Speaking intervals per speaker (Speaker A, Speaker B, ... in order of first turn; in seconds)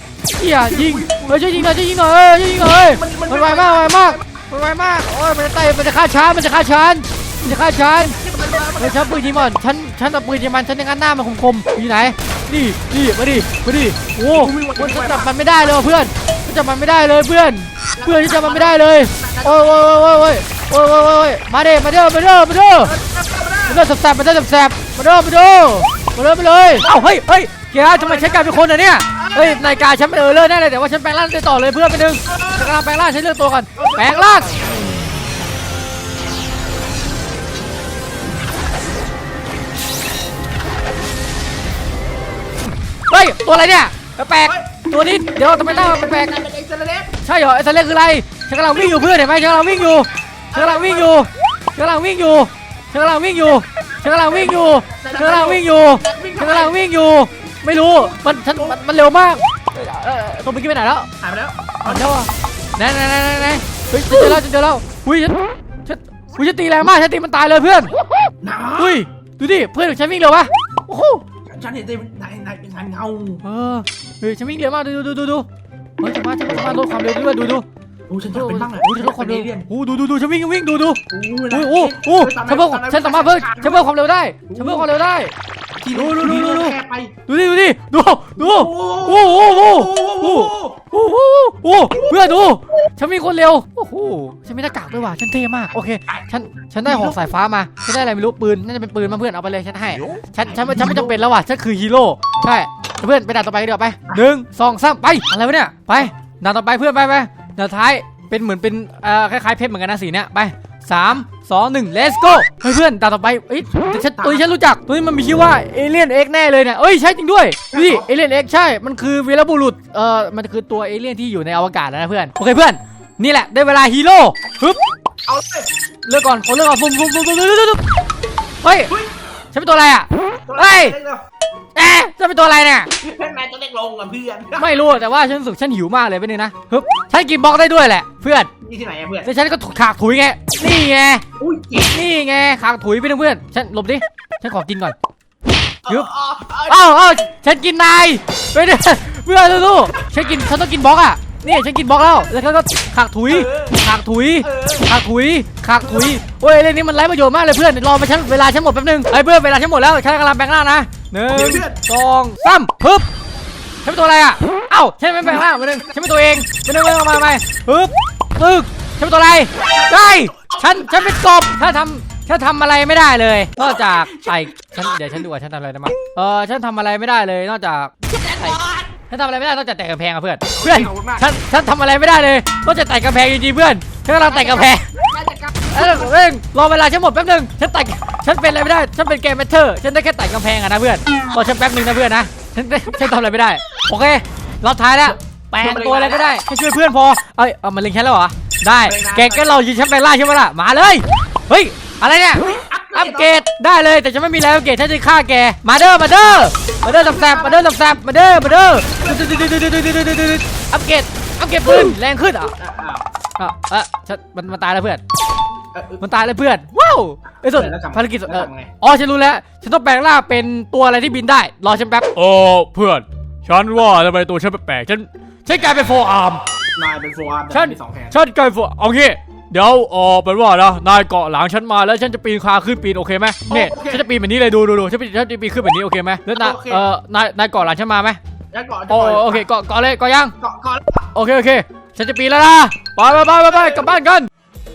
Speaker A: 0.4-8.2, 8.8-22.9, 23.7-34.5, 43.1-46.4, 47.2-61.1, 61.9-67.9, 68.8-71.2, 73.4-75.5, 76.0-77.7, 78.3-85.3, 85.9-86.8, 87.3-124.8, 126.1-127.8, 128.6-128.9, 129.5-131.0, 131.8-132.9, 134.6-138.5, 139.2-141.2, 141.8-144.9, 146.7-163.1, 163.8-184.8, 185.7-212.5, 213.4-215.0, 216.0-226.4, 227.5-238.2, 238.9-240.3, 241.1-244.3
Speaker B: 0.6-1.8, 2.8-4.4, 8.1-9.6, 14.3-15.3, 18.0-19.9, 22.9-23.9, 27.8-29.9, 32.3-32.8, 33.8-34.8, 44.5-47.1, 50.5-51.3, 54.3-56.8, 58.0-58.8, 61.2-62.1, 68.4-69.0, 71.5-73.4, 78.1-79.7, 81.1-83.9, 84.5-84.9, 85.8-87.1, 88.4-90.8, 96.8-97.2, 100.5-101.2, 113.9-114.5, 117.7-118.1, 125.3-125.7, 130.5-131.2, 133.0-134.9, 138.6-139.3, 141.4-142.0, 145.8-146.9, 153.3-153.8, 154.4-154.9, 155.8-156.1, 161.3-161.8, 165.3-165.8, 169.6-171.2, 173.6-175.2, 178.1-178.9, 180.5-181.3, 184.3-186.2, 195.6-196.3, 198.8-199.6, 202.4-203.4, 206.8-207.7, 208.6-209.6, 212.6-213.1, 215.7-216.0, 217.4-218.7, 226.8-228.2, 233.5-234.1, 236.4-236.8, 238.5-239.5, 240.4-241.1, 243.3-243.9